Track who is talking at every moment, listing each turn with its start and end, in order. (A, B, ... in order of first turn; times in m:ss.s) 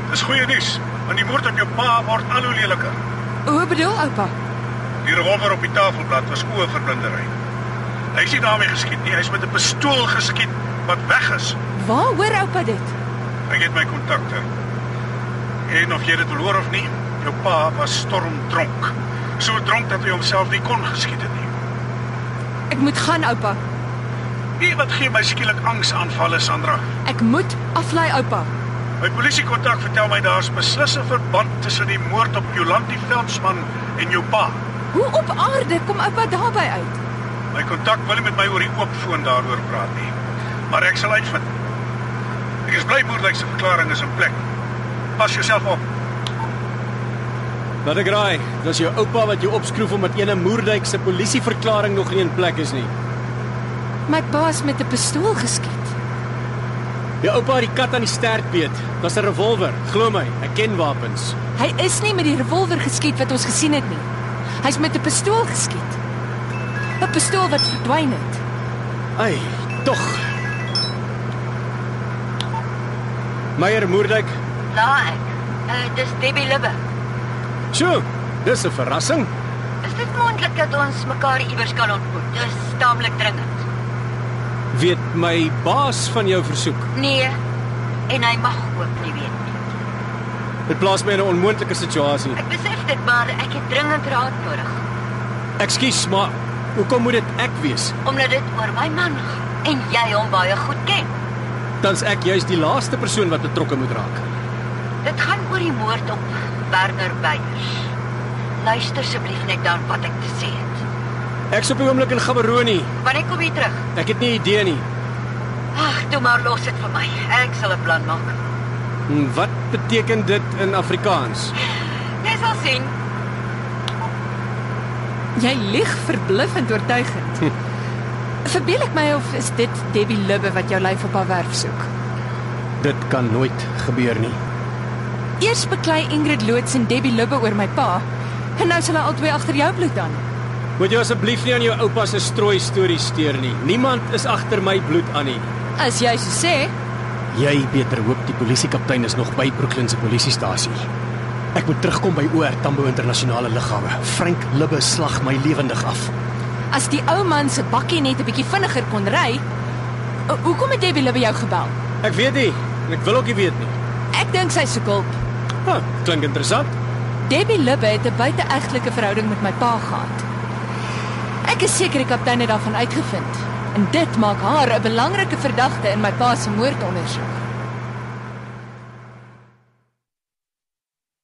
0:00.1-0:03.0 A
0:03.4-0:04.3 B
0:05.0-0:07.3 A
0:08.1-0:11.6 A
0:11.7-0:13.0 B
0:13.5-0:14.4 A
0:15.7-0:21.5 A
0:22.7-0:23.6 B
0:24.6-0:26.8 A
0:27.0-0:28.5 B
0:29.0-0:34.6 A
0:34.9-0:37.0 B
0:37.5-0:40.1 A
0:40.7-0:41.5 A
0:42.7-0:44.4 A
0:45.2-0:45.8 A
0:47.8-0:52.9 C
0:54.1-0:55.9 B
0:57.2-1:01.4 C
1:01.6-1:04.1 B
1:04.6-1:06.0 B
1:07.0-1:08.4 B
1:09.2-1:10.2 C
1:13.6-1:14.4 C
1:14.7-1:16.8 D
1:17.7-1:19.3 C
1:19.8-1:23.6 D
1:24.7-1:26.9 C
1:26.9-1:27.4 D
1:28.1-1:29.6 D
1:30.7-1:32.4 C
1:32.4-1:34.8 D
1:35.6-1:38.0 C
1:38.0-1:41.1 D
1:41.8-1:44.2 C
1:45.0-1:47.9 D
1:48.6-1:50.8 D
1:51.5-1:52.9 C
1:53.0-1:53.8 D
1:53.9-1:54.8 C
1:55.7-1:58.4 D
1:59.1-2:01.5 C
2:02.2-2:02.9 D
2:05.3-2:07.5 B
2:08.4-2:11.9 B
2:12.8-2:14.4 C
2:15.4-2:18.0 B
2:18.6-2:20.2 B
2:20.8-2:25.5 C
2:25.8-2:26.7 B
2:27.3-2:30.9 C
2:31.5-2:36.1 C
2:36.7-2:39.4 B
2:40.3-2:41.8 B
2:42.0-2:43.8 C
2:44.1-2:45.2 B
2:45.6-2:46.8 C
2:47.2-2:50.2 B
2:51.4-2:57.4 B